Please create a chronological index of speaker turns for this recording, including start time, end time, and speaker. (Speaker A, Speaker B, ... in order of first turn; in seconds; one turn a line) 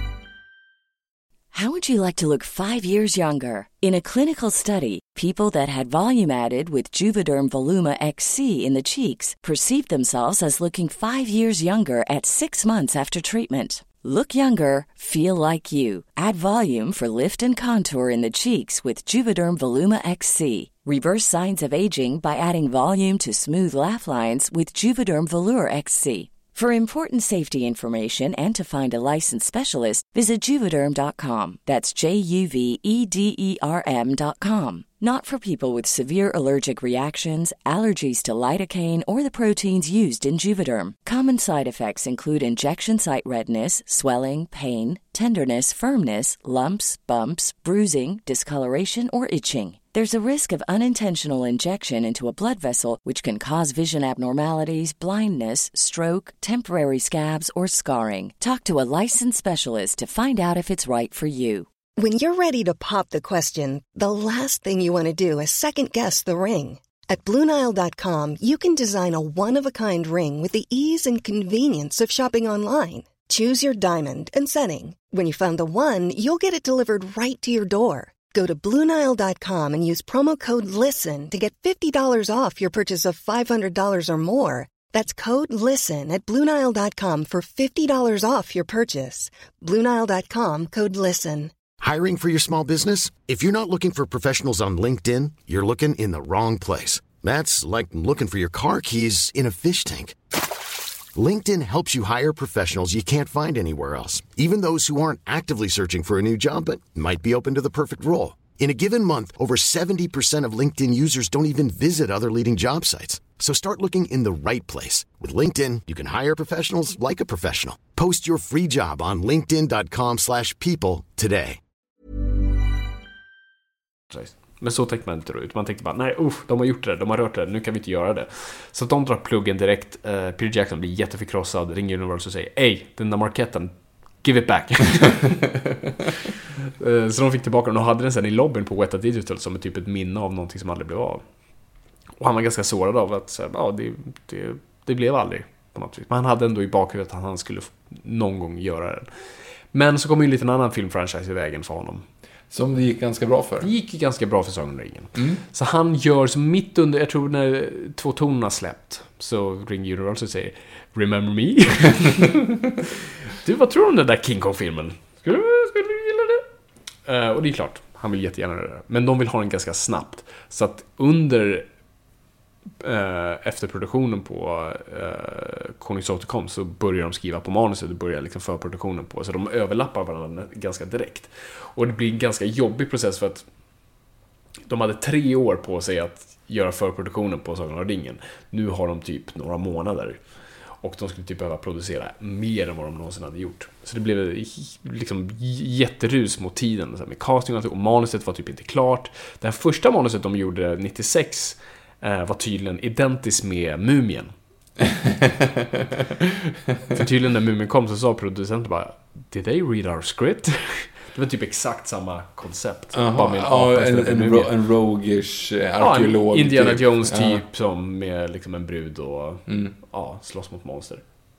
Speaker A: 1.5-61.7
Speaker B: 62.0-91.5
Speaker C: 91.8-100.2
Speaker C: 101.1-121.6
Speaker D: 124.1-135.3
Speaker D: 136.8-141.2
Speaker D: 142.2-149.1
Speaker D: 149.7-152.0
Speaker E: 152.5-153.7
Speaker D: 153.6-162.4
Speaker E: 155.1-155.4
Speaker D: 163.3-166.4
Speaker D: 167.1-171.7
Speaker D: 172.8-183.4
Speaker D: 184.7-190.2
Speaker D: 190.8-204.3
Speaker E: 204.9-207.0
Speaker D: 206.9-214.5
Speaker E: 212.9-217.4
Speaker D: 215.8-221.0
Speaker E: 219.5-219.7